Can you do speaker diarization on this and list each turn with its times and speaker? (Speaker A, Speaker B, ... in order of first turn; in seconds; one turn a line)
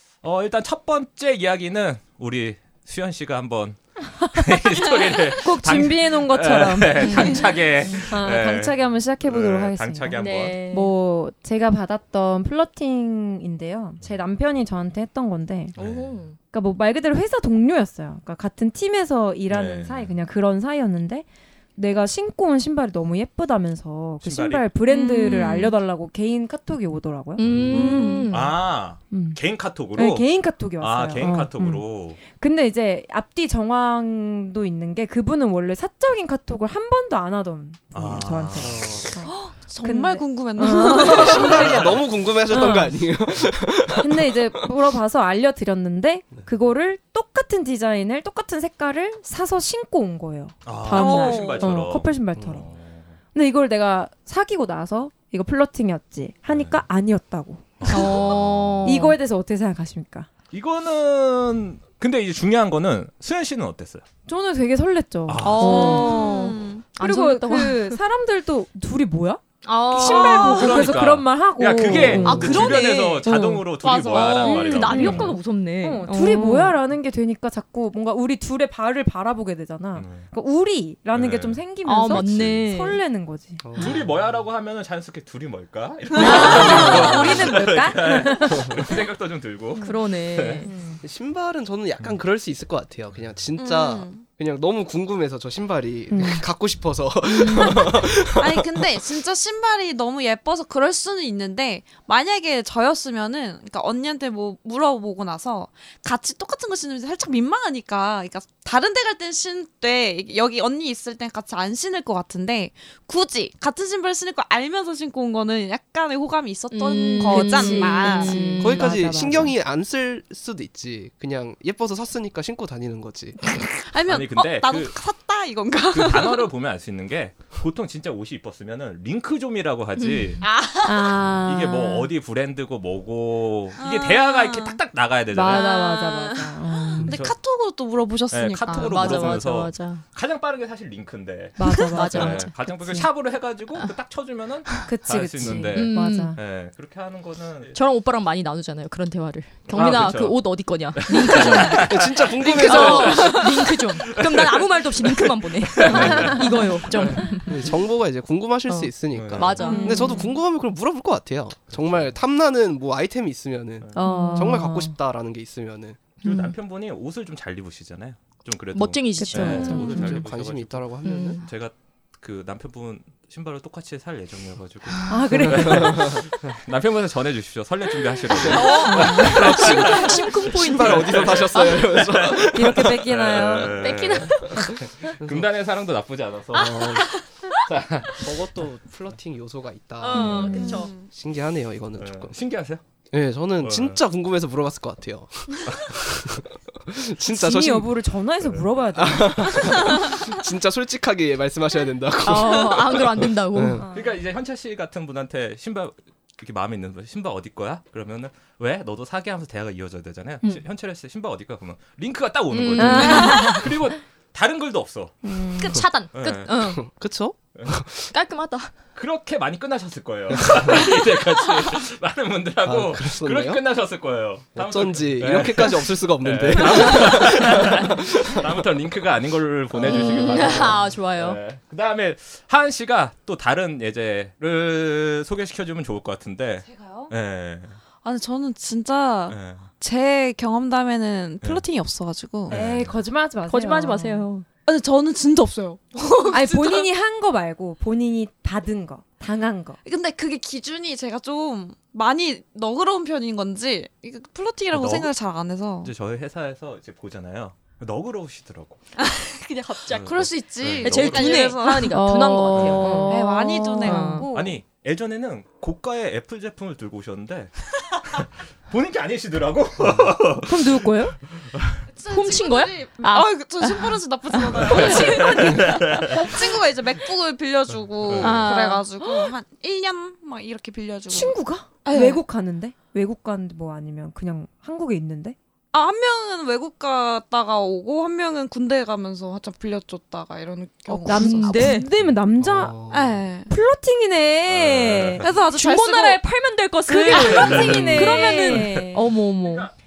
Speaker A: 0.2-10.6
Speaker B: 4.3-4.7
Speaker B: 5.3-15.8
Speaker C: 7.0-8.1
Speaker C: 10.1-10.9
Speaker A: 15.8-16.3
Speaker C: 15.8-16.4
Speaker B: 16.5-27.4
Speaker A: 19.5-20.1
Speaker A: 24.2-25.7
Speaker C: 24.9-25.7
Speaker C: 27.4-28.5
Speaker A: 27.4-32.2
Speaker D: 27.4-27.7
Speaker E: 27.7-28.4
Speaker B: 29.1-29.4
Speaker B: 29.9-41.9
Speaker A: 37.9-39.1
Speaker D: 38.6-39.1
Speaker E: 39.2-41.8
Speaker D: 40.9-44.5
Speaker A: 41.2-42.0
Speaker B: 42.5-43.0
Speaker B: 44.0-52.7
Speaker A: 50.6-53.1
Speaker E: 50.9-51.7
Speaker B: 53.3-58.2
Speaker A: 56.5-56.8
Speaker A: 57.8-58.9
Speaker C: 57.9-59.2
Speaker B: 58.8-60.3
Speaker A: 60.5-64.0
Speaker B: 64.3-73.6
Speaker A: 65.3-66.0
Speaker C: 65.4-68.0
Speaker E: 65.6-66.9
Speaker C: 69.6-71.0
Speaker A: 70.0-75.3
Speaker C: 71.9-76.8
Speaker B: 74.4-83.6
Speaker A: 80.0-80.3
Speaker A: 81.1-81.7
Speaker C: 81.8-83.0
Speaker A: 82.2-82.6
Speaker D: 83.6-84.1
Speaker A: 83.8-90.7
Speaker B: 86.2-88.9
Speaker E: 86.2-87.0
Speaker C: 86.2-87.1
Speaker C: 89.8-90.7
Speaker B: 90.6-91.0
Speaker D: 91.0-98.9
Speaker E: 93.6-94.2
Speaker B: 96.1-96.4
Speaker C: 97.2-98.0
Speaker E: 98.4-118.6
Speaker C: 116.7-118.9
Speaker B: 117.3-119.5
Speaker D: 118.6-123.4
Speaker E: 123.8-126.5
Speaker A: 124.0-125.0
Speaker A: 125.9-130.4
Speaker C: 130.0-130.4
Speaker E: 130.4-131.2
Speaker B: 130.8-132.1
Speaker A: 131.3-135.7
Speaker E: 133.8-134.8
Speaker B: 135.3-137.2
Speaker E: 135.5-139.5
Speaker A: 137.0-137.3
Speaker A: 138.3-147.8
Speaker C: 138.7-140.0
Speaker B: 141.6-143.1
Speaker C: 141.7-142.5
Speaker B: 144.9-146.4
Speaker C: 145.5-146.4
Speaker C: 147.7-157.7
Speaker A: 149.7-157.4
Speaker D: 151.8-153.4
Speaker E: 152.7-153.7
Speaker B: 155.9-157.3
Speaker D: 157.5-166.0
Speaker C: 158.7-160.2
Speaker A: 159.1-159.7
Speaker B: 159.6-160.3
Speaker E: 159.6-160.2
Speaker B: 164.0-165.0
Speaker C: 164.0-164.6
Speaker A: 166.2-187.0
Speaker B: 166.2-166.5
Speaker C: 168.8-170.1
Speaker B: 169.2-170.2
Speaker D: 169.7-171.4
Speaker C: 171.0-171.4
Speaker B: 175.1-176.2
Speaker D: 178.4-183.0
Speaker C: 178.5-182.0
Speaker B: 178.8-179.4
Speaker B: 182.4-183.9
Speaker C: 183.7-184.8
Speaker D: 184.5-185.5
Speaker D: 186.5-187.1
Speaker C: 186.6-187.1
Speaker A: 187.6-188.4
Speaker D: 188.2-192.3
Speaker C: 190.0-190.9
Speaker E: 190.1-191.1
Speaker A: 190.2-190.6
Speaker B: 190.3-190.8
Speaker A: 192.0-192.8
Speaker D: 193.1-198.0
Speaker A: 193.6-194.0
Speaker B: 197.3-199.9
Speaker D: 199.0-203.9
Speaker C: 202.2-203.8
Speaker A: 203.9-215.2
Speaker C: 212.5-213.7
Speaker B: 212.8-213.7
Speaker B: 215.2-215.8
Speaker C: 215.6-216.9
Speaker A: 216.1-216.5
Speaker D: 216.6-218.1
Speaker C: 218.1-218.7
Speaker A: 218.9-237.8
Speaker D: 222.7-223.6
Speaker D: 224.6-228.5
Speaker C: 226.6-227.6
Speaker C: 229.8-231.4
Speaker D: 230.1-230.7
Speaker E: 236.6-237.1
Speaker E: 238.0-242.6
Speaker A: 239.3-239.7
Speaker A: 242.5-242.9
Speaker B: 242.5-244.3
Speaker C: 243.5-244.5
Speaker E: 244.7-246.9
Speaker B: 246.3-249.8
Speaker E: 249.8-255.9
Speaker A: 254.7-255.1
Speaker A: 255.8-258.8
Speaker E: 259.0-264.6
Speaker C: 259.7-260.1
Speaker A: 259.9-261.6
Speaker C: 260.8-263.2
Speaker B: 261.7-264.3
Speaker A: 262.6-263.0
Speaker C: 263.8-264.3
Speaker A: 264.3-271.8
Speaker B: 270.5-271.2
Speaker E: 271.9-282.2
Speaker C: 272.1-275.6
Speaker B: 274.7-276.2
Speaker A: 274.7-276.4
Speaker A: 278.0-278.6
Speaker C: 278.2-278.9
Speaker B: 279.0-279.3
Speaker B: 281.1-285.4
Speaker E: 285.7-291.8
Speaker C: 290.9-291.9
Speaker B: 291.0-292.8
Speaker D: 292.4-293.2
Speaker E: 292.9-293.5
Speaker B: 293.5-295.3
Speaker A: 294.5-295.3
Speaker E: 295.2-296.2
Speaker C: 295.5-299.7
Speaker B: 296.9-299.1
Speaker A: 297.1-298.6